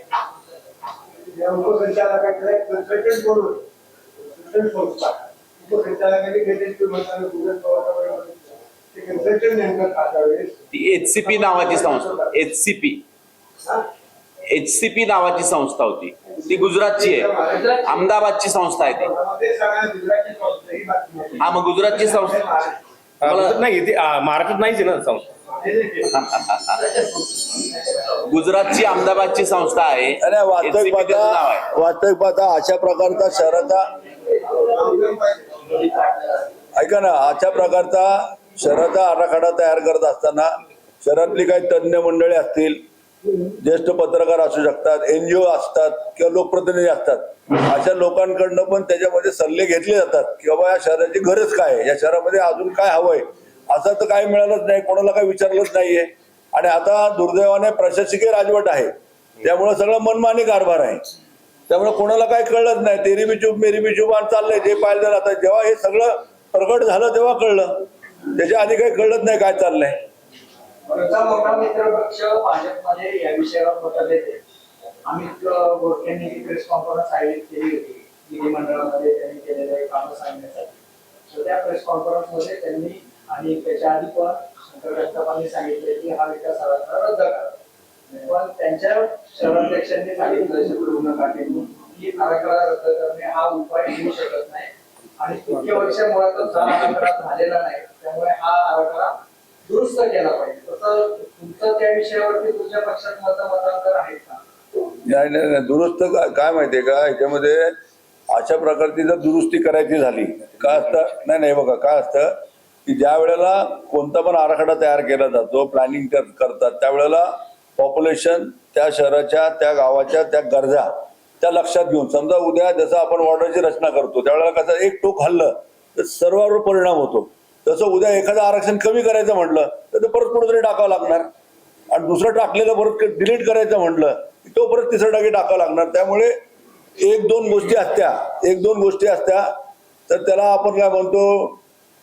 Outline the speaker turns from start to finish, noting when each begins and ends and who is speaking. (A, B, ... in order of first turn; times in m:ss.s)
0:01.2-0:03.6 A
0:04.2-0:10.6 A
0:10.7-0:13.0 B
0:11.2-0:12.3 A
0:14.5-0:19.1 B
0:16.4-0:18.1 A
0:18.8-0:22.8 A
0:21.4-0:22.4 B
0:23.2-0:25.2 C
0:23.2-0:23.6 B
0:25.6-0:26.2 A
0:26.2-0:26.8 B
0:27.0-0:27.7 D
0:28.2-0:31.7 B
0:30.2-0:33.9 E
0:34.5-0:36.2 A
0:36.8-0:40.5 E
0:41.0-0:42.8 E
0:43.6-0:58.9 E
0:59.4-1:01.0 E
1:01.7-1:10.0 E
1:10.9-1:14.4 D
1:15.0-1:20.7 D
1:21.3-1:27.6 D
1:28.1-1:39.1 D
1:39.6-1:44.4 D
1:45.0-1:47.7 E
1:48.3-2:11.3 E
2:11.9-2:16.3 E
2:17.0-2:19.5 E
2:20.1-2:21.6 E